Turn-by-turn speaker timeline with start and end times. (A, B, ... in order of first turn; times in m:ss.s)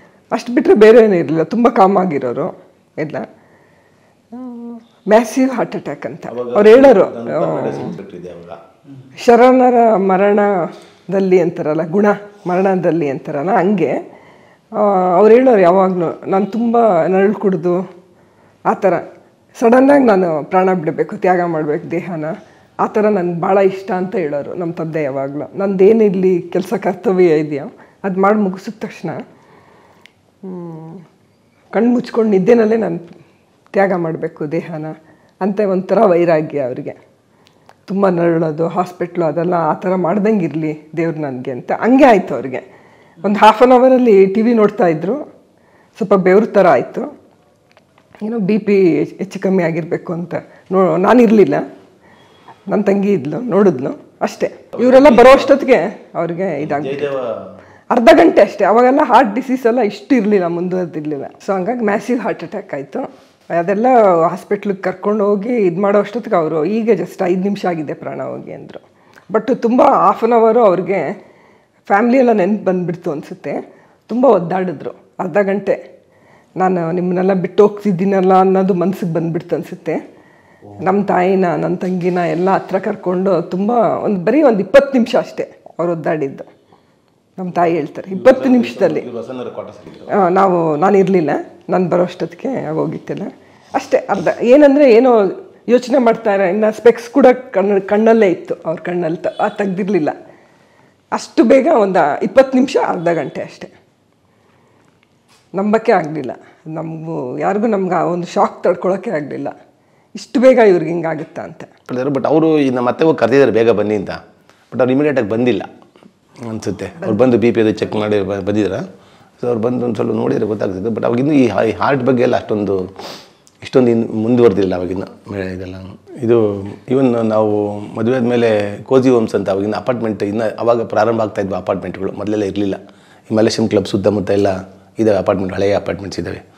0:00.3-0:03.3 A
0:04.3-0:07.9 A
0:06.3-0:08.6 B
0:09.2-0:10.5 A
0:11.1-0:14.0 A
0:14.7-0:17.8 A
0:18.7-0:19.0 A
0:19.6-0:29.2 A
0:30.4-0:31.0 A
0:31.7-0:33.0 A
0:33.7-0:37.0 A
0:37.9-0:42.6 A
0:43.2-0:45.2 A
0:46.0-0:47.1 A
0:48.2-0:51.6 A
0:52.7-0:57.1 A
0:54.7-0:55.6 B
0:56.6-0:57.6 B
0:57.9-1:11.1 A
1:11.9-1:15.8 A
1:16.6-1:20.0 A
1:20.8-1:26.5 A
1:27.4-1:29.0 A
1:28.1-1:30.1 B
1:30.2-1:40.1 A
1:41.1-1:43.7 A
1:45.5-1:49.5 A
1:50.1-1:51.7 A
1:51.9-1:54.2 B
1:54.7-1:55.7 B
1:56.4-1:58.8 B
1:57.0-1:57.3 A
1:59.4-2:02.9 B
2:03.6-2:16.4 B